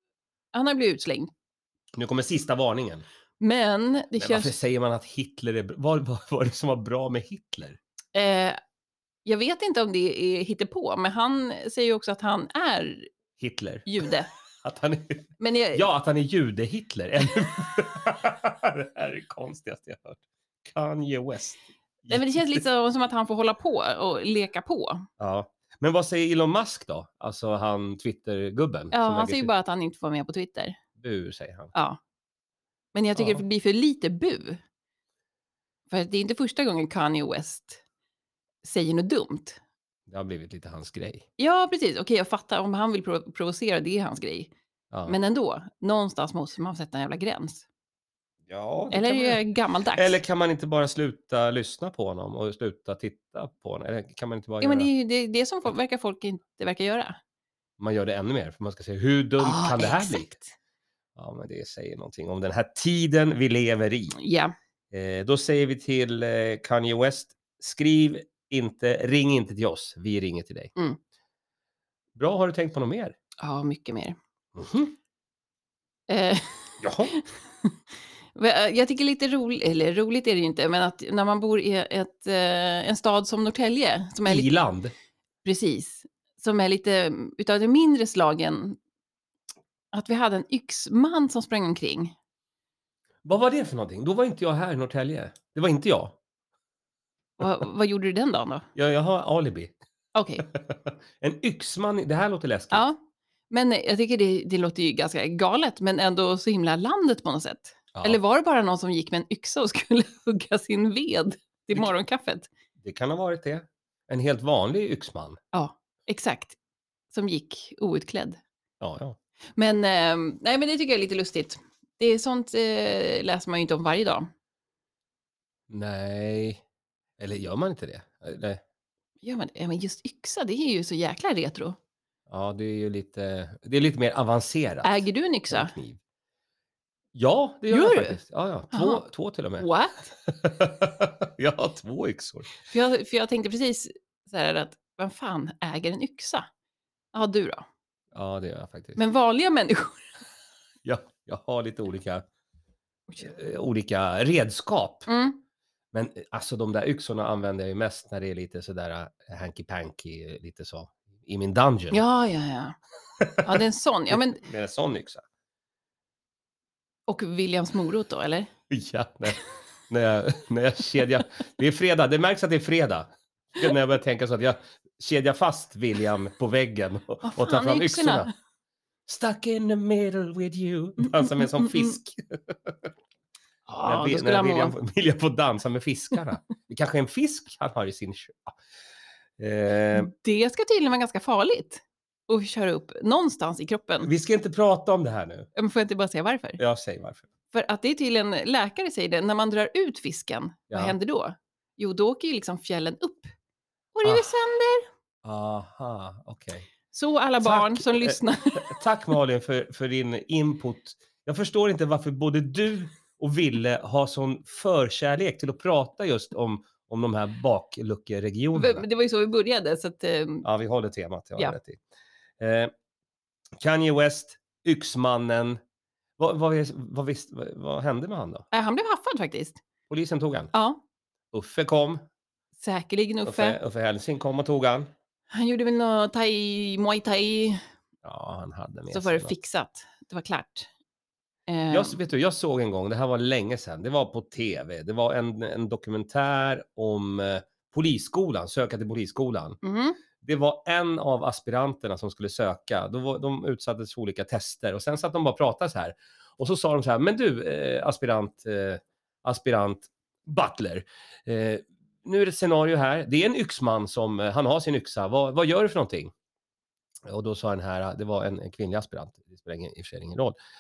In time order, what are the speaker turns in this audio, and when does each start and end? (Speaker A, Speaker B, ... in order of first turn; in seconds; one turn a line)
Speaker A: 0.5-1.3
Speaker B: 1.9-3.0
Speaker A: 3.4-4.5
Speaker B: 4.2-7.8
Speaker A: 8.1-8.6
Speaker A: 9.2-13.1
Speaker B: 13.4-14.1
Speaker A: 13.9-14.3
Speaker B: 14.6-22.6
Speaker A: 15.4-15.9
Speaker A: 22.1-25.1
Speaker B: 25.2-29.5
Speaker A: 28.9-30.8
Speaker B: 31.0-31.7
Speaker A: 31.7-32.0
Speaker A: 32.9-34.6
Speaker B: 33.2-33.4
Speaker A: 35.9-37.8
Speaker A: 38.6-39.6
Speaker B: 40.1-41.2
Speaker A: 41.4-44.5
Speaker B: 44.9-45.2
Speaker A: 45.1-47.7
Speaker B: 48.5-49.4
Speaker A: 48.9-50.2
Speaker B: 49.9-54.9
Speaker A: 54.6-57.2
Speaker B: 57.8-60.3
Speaker A: 59.4-60.5
Speaker B: 61.2-64.2
Speaker A: 64.1-64.5
Speaker B: 64.9-70.7
Speaker B: 72.2-73.2
Speaker A: 73.4-74.2
Speaker B: 74.5-75.0
Speaker A: 76.1-77.7
Speaker B: 76.8-77.1
Speaker A: 78.3-84.5
Speaker B: 84.2-84.9
Speaker A: 85.4-88.8
Speaker A: 89.9-92.1
Speaker B: 93.2-96.2
Speaker A: 97.4-98.7
Speaker B: 98.8-99.7
Speaker A: 100.1-100.5
Speaker B: 100.5-102.9
Speaker A: 102.7-103.0
Speaker A: 103.5-112.5
Speaker B: 107.9-108.2
Speaker B: 112.8-115.4
Speaker A: 115.5-116.6
Speaker A: 117.1-118.4
Speaker B: 118.8-119.2
Speaker A: 119.6-124.3
Speaker B: 125.7-126.6
Speaker B: 127.2-128.6
Speaker A: 129.2-131.8
Speaker B: 132.3-136.0
Speaker A: 134.8-135.7
Speaker B: 137.1-139.7
Speaker A: 137.7-138.2
Speaker A: 138.7-139.0
Speaker A: 139.6-140.1
Speaker B: 140.2-142.5
Speaker A: 142.7-146.5
Speaker A: 147.1-147.7
Speaker B: 148.1-149.0
Speaker A: 149.0-150.0
Speaker B: 150.8-152.2
Speaker B: 153.2-155.1
Speaker A: 155.1-155.4
Speaker B: 155.9-162.0
Speaker A: 161.9-162.8
Speaker B: 163.2-163.6
Speaker A: 163.4-164.4
Speaker B: 164.1-165.2
Speaker A: 167.1-168.5
Speaker B: 168.7-178.3
Speaker A: 177.2-178.3
Speaker B: 179.1-182.9
Speaker A: 181.6-181.9
Speaker A: 183.7-184.8
Speaker B: 183.8-188.6
Speaker B: 189.4-190.1
Speaker A: 189.9-194.1
Speaker B: 194.0-195.5
Speaker A: 195.6-196.6
Speaker B: 196.6-197.3
Speaker A: 197.5-203.3
Speaker B: 200.7-200.9
Speaker A: 203.9-204.9
Speaker B: 205.2-206.7
Speaker A: 206.9-208.8
Speaker B: 207.4-218.8
Speaker A: 218.6-220.5
Speaker B: 220.4-221.8
Speaker B: 222.4-222.7
Speaker B: 223.6-225.6
Speaker B: 226.2-228.5
Speaker A: 228.5-229.6
Speaker B: 229.9-230.5
Speaker A: 230.5-230.8
Speaker B: 231.3-232.0
Speaker A: 232.6-233.6
Speaker B: 233.2-234.9
Speaker A: 235.3-237.6
Speaker B: 238.0-239.3
Speaker A: 238.9-240.7
Speaker A: 241.5-242.0
Speaker B: 241.7-249.6
Speaker A: 249.6-250.0
Speaker B: 250.2-266.1
Speaker B: 267.1-270.4